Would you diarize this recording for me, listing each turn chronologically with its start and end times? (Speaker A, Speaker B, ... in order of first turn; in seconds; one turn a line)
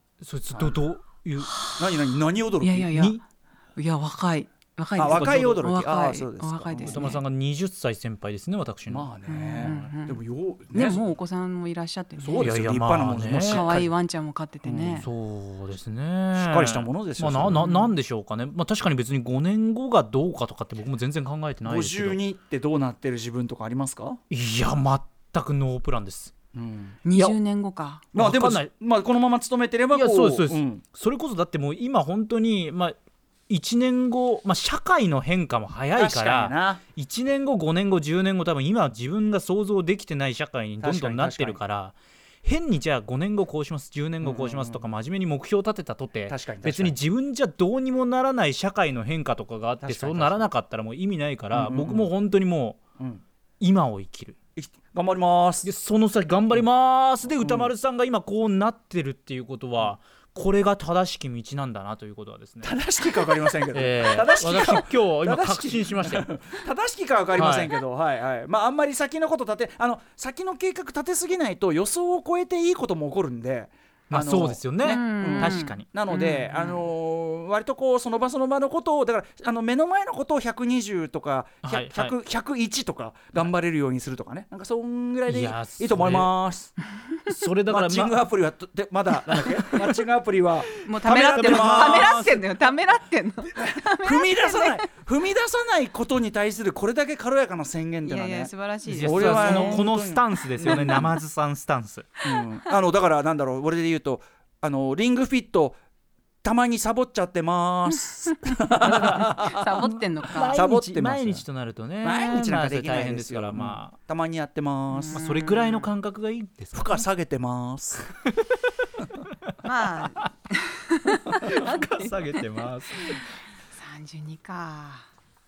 Speaker A: 0.2-1.5
Speaker B: 1.4-1.9
Speaker C: 1.8-2.9
Speaker B: 2.6-3.2
Speaker A: 2.9-3.2
Speaker B: 3.8-7.2
Speaker C: 5.0-7.0
Speaker A: 5.1-5.4
Speaker A: 6.8-9.1
Speaker C: 8.9-11.0
Speaker B: 9.2-10.2
Speaker B: 10.7-12.5
Speaker C: 12.2-13.9
Speaker A: 12.3-13.7
Speaker B: 13.4-15.1
Speaker C: 14.7-15.0
Speaker A: 14.8-22.2
Speaker C: 16.3-17.7
Speaker B: 17.6-17.9
Speaker C: 21.6-24.2
Speaker A: 24.3-26.3
Speaker C: 26.5-27.0
Speaker B: 27.0-28.0
Speaker C: 28.1-30.8
Speaker A: 28.1-28.7
Speaker A: 29.9-33.0
Speaker A: 33.5-52.8
Speaker C: 35.9-36.8
Speaker C: 40.8-41.6
Speaker C: 44.2-44.8
Speaker C: 46.3-47.0
Speaker C: 49.8-50.5
Speaker C: 51.5-52.1
Speaker A: 53.6-54.4
Speaker C: 54.5-55.7
Speaker A: 55.6-62.7
Speaker C: 57.4-57.7
Speaker C: 62.6-86.7
Speaker A: 63.7-66.3
Speaker A: 67.3-67.7
Speaker A: 74.1-75.8
Speaker B: 74.8-76.8
Speaker A: 81.6-82.1
Speaker A: 85.3-86.3
Speaker A: 87.3-88.2
Speaker C: 87.7-92.2
Speaker B: 90.8-94.8
Speaker A: 91.3-92.4
Speaker C: 93.5-101.1
Speaker B: 98.0-99.8
Speaker A: 98.9-102.1
Speaker C: 102.2-105.8
Speaker C: 106.4-109.9
Speaker B: 108.4-110.6
Speaker A: 108.8-109.3
Speaker A: 110.2-113.9
Speaker C: 110.5-111.4
Speaker C: 112.0-115.2
Speaker B: 114.9-115.9
Speaker A: 115.1-117.0
Speaker C: 116.7-118.1
Speaker A: 118.2-118.6
Speaker B: 119.6-122.4
Speaker A: 121.2-123.2
Speaker B: 123.7-125.0